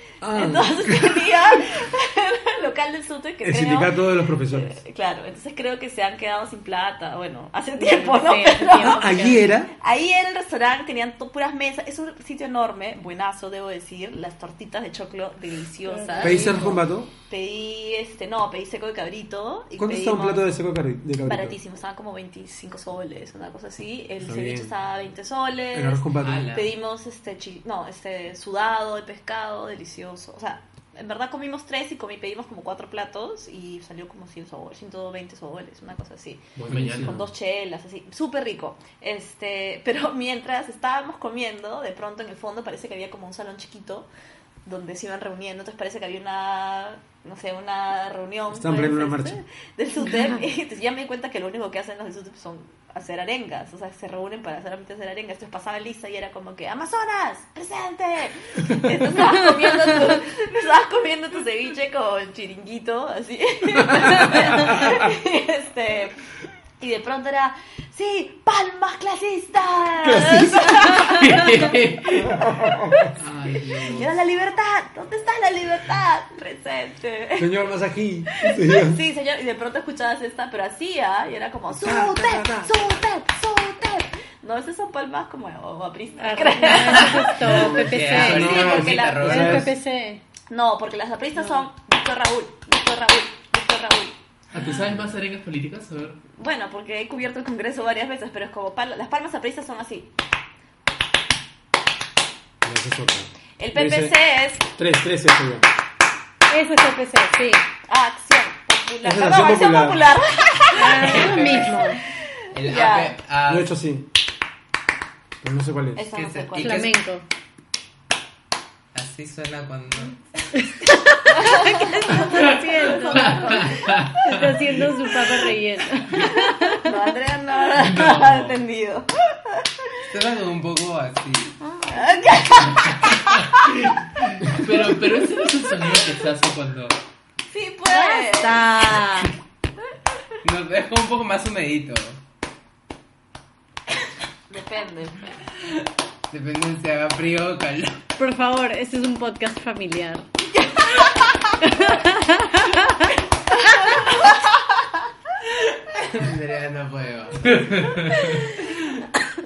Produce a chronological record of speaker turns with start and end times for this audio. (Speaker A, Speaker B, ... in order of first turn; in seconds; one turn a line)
Speaker A: 0.2-1.6
Speaker B: 0.3-16.6
Speaker A: 3.4-4.8
Speaker C: 7.8-9.5
Speaker A: 8.8-9.7
Speaker C: 15.8-16.8
Speaker A: 16.2-17.1
Speaker B: 17.3-20.5
Speaker A: 19.8-21.6
Speaker B: 21.2-44.1
Speaker A: 24.2-24.7
Speaker A: 25.7-26.5
Speaker D: 26.2-26.7
Speaker E: 36.5-37.3
Speaker A: 36.7-37.2
Speaker B: 44.6-66.1
Speaker A: 48.5-49.4
Speaker A: 64.0-64.9
Speaker B: 66.8-71.7
Speaker A: 70.0-71.0
Speaker E: 71.0-72.4
Speaker A: 72.2-73.1
Speaker D: 73.2-74.1
Speaker B: 73.7-77.6
Speaker A: 77.4-79.0
Speaker B: 78.3-89.5
Speaker A: 81.7-82.9
Speaker C: 86.2-90.2
Speaker D: 86.7-89.7
Speaker A: 87.4-89.7
Speaker B: 90.5-94.2
Speaker E: 94.5-96.2
Speaker B: 96.3-100.1
Speaker A: 102.6-104.2
Speaker B: 103.6-104.7
Speaker A: 104.7-105.6
Speaker C: 106.5-107.6
Speaker B: 107.9-111.9
Speaker A: 109.0-110.0
Speaker C: 110.7-112.0
Speaker D: 110.9-111.7
Speaker B: 112.5-113.2
Speaker D: 112.5-113.7
Speaker A: 113.5-114.1
Speaker A: 115.4-116.0
Speaker B: 115.9-116.9
Speaker D: 116.1-116.9
Speaker C: 116.6-117.2
Speaker D: 118.9-120.2
Speaker C: 120.5-126.9
Speaker B: 121.3-124.0
Speaker E: 123.2-124.6
Speaker B: 126.1-130.0
Speaker E: 127.7-128.6
Speaker D: 130.1-131.6
Speaker C: 131.6-132.3
Speaker B: 131.8-133.4
Speaker E: 132.8-136.9
Speaker B: 137.4-139.3
Speaker C: 137.9-139.3
Speaker D: 140.4-142.2
Speaker B: 144.5-145.3
Speaker D: 146.3-148.0
Speaker C: 148.2-150.2
Speaker B: 150.5-151.9
Speaker C: 151.6-153.1
Speaker B: 153.0-154.6
Speaker D: 155.9-157.9
Speaker E: 157.4-158.5